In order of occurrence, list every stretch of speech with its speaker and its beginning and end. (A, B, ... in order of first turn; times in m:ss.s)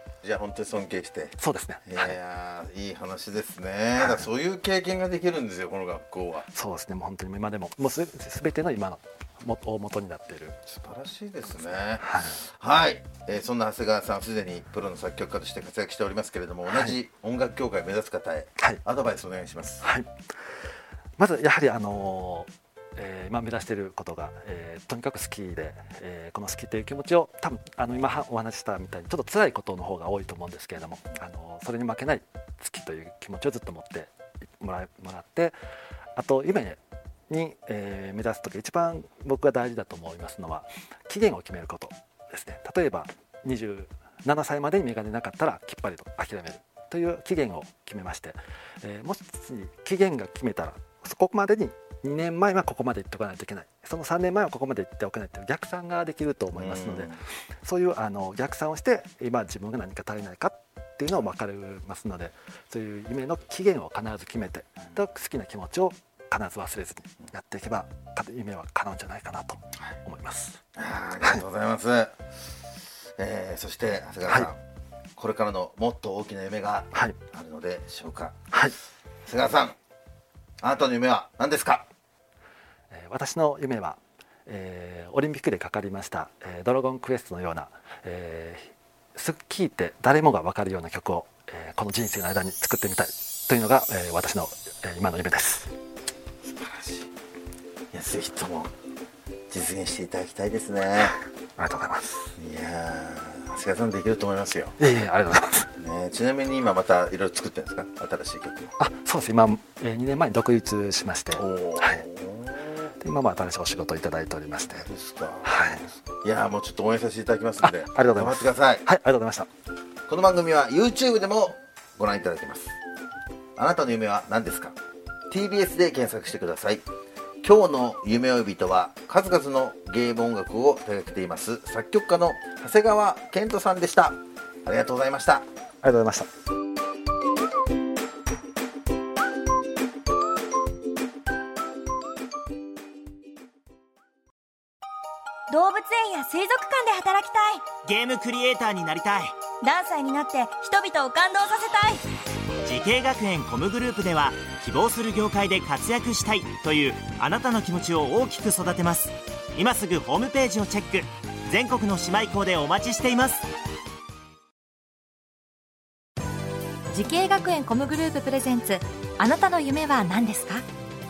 0:00.2-0:06.5 A
0:01.4-0:02.2 B
0:04.0-0:04.2 B
0:06.5-0:10.6 B
0:10.6-0:19.8 A
0:12.0-0:12.4 B
0:16.7-0:17.0 B
0:19.8-0:20.1 B
0:21.2-0:35.5 B
0:36.2-1:10.6 B
0:56.5-0:57.2 A
1:10.8-1:12.1 A
1:13.2-1:14.6 A
1:15.2-1:18.4 A
1:19.2-1:19.7 A
1:20.6-1:21.9 A
1:22.9-1:35.7 B
1:36.4-1:37.1 A
1:37.9-1:38.7 A
1:39.5-1:41.2 A
1:41.6-1:42.3 B
1:42.4-1:44.7 A
1:44.8-1:45.7 B
1:45.8-1:48.7 A
1:48.8-1:52.0 B
1:51.3-1:52.9 A
1:53.0-1:54.9 B
1:54.7-1:58.9 A
1:55.4-1:55.9 B
1:57.6-1:59.5 B
2:00.1-2:02.7 A
2:03.6-2:04.7 A
2:05.3-2:06.8 A
2:07.4-2:15.4 A
2:15.8-2:16.3 B
2:25.5-2:27.7 C
2:27.8-2:29.4 D
2:29.6-2:32.0 C
2:32.6-2:43.4 D
2:46.9-2:50.6 E